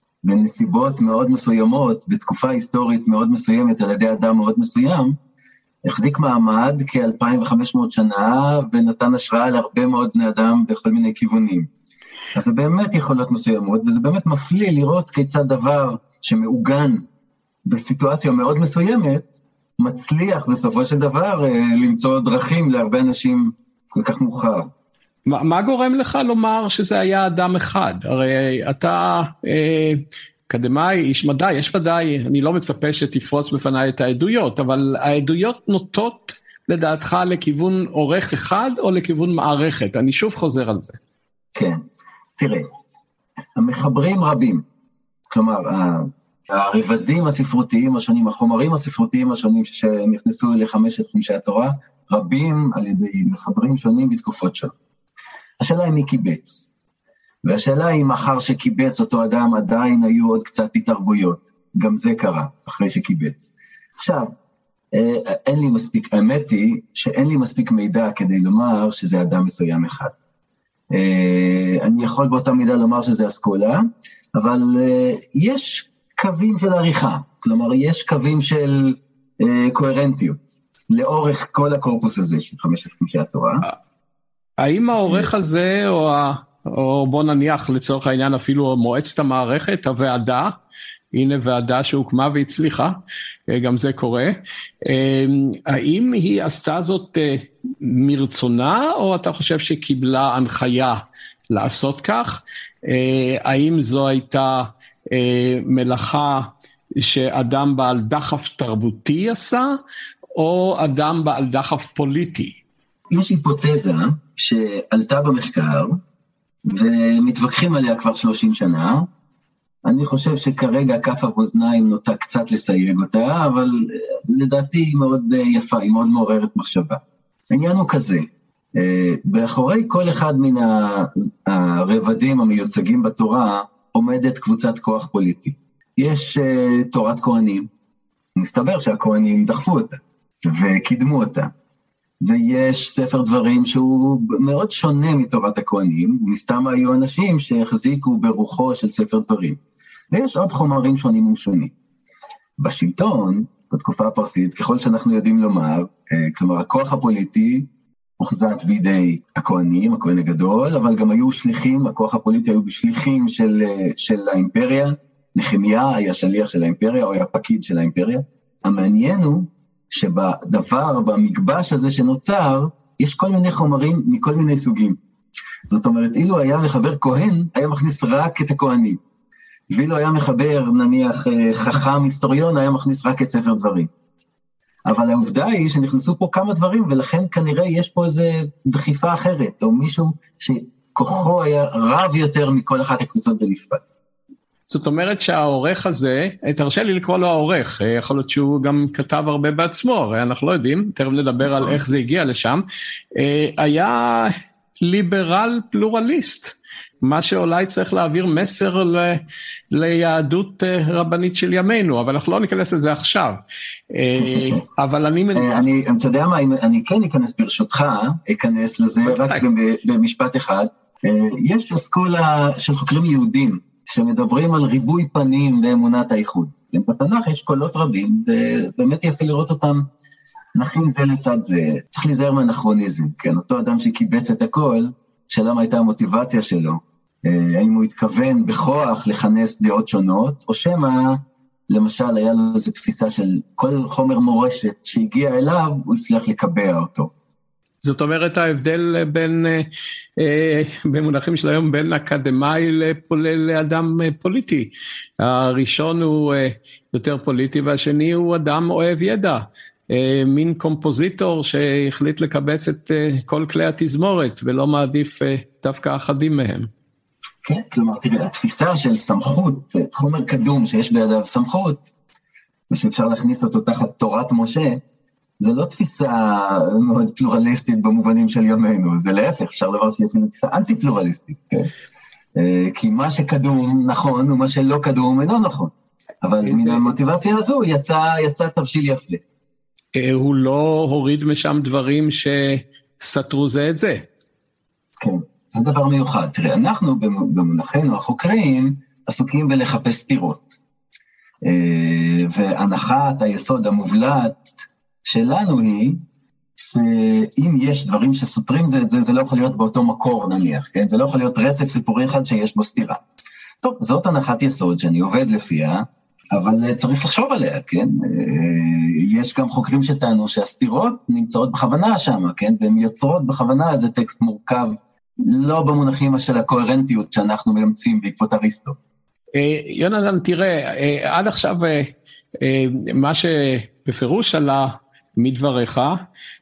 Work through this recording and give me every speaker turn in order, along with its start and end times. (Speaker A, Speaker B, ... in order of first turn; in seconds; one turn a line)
Speaker A: 0.2-5.2
Speaker A: 5.8-11.7
Speaker A: 12.3-17.1
Speaker A: 17.7-19.3
Speaker A: 19.8-24.7
Speaker B: 25.3-41.0
Speaker A: 41.5-41.8
Speaker A: 42.4-42.7
Speaker A: 43.6-44.6
Speaker A: 45.3-54.7
Speaker A: 55.6-56.7
Speaker A: 57.4-63.5
Speaker A: 64.0-64.3
Speaker A: 64.9-70.1
Speaker A: 70.9-83.7
Speaker B: 84.6-90.5
Speaker B: 91.1-109.8
Speaker B: 110.4-112.6
Speaker A: 113.1-116.0
Speaker A: 116.7-119.1
Speaker A: 119.8-137.7
Speaker A: 138.4-141.5
Speaker A: 142.2-149.6
Speaker A: 150.1-151.7
Speaker A: 152.6-175.0
Speaker A: 175.7-179.0
Speaker A: 179.7-183.9
Speaker A: 184.9-193.8
Speaker B: 194.7-202.6
Speaker A: 201.4-201.8
Speaker B: 203.2-215.7
Speaker A: 214.2-214.6
Speaker A: 215.3-229.9
Speaker B: 219.1-219.4
Speaker A: 230.6-247.1
Speaker B: 247.8-249.7
Speaker B: 250.2-266.7
Speaker A: 267.4-271.8
Speaker A: 272.7-274.8
Speaker A: 275.4-281.7
Speaker A: 282.4-285.7
Speaker A: 286.2-289.2
Speaker B: 286.4-286.9
Speaker B: 289.9-294.1
Speaker A: 295.0-300.5
Speaker A: 301.4-306.0
Speaker A: 306.6-313.0
Speaker A: 313.6-328.8
Speaker B: 329.3-336.0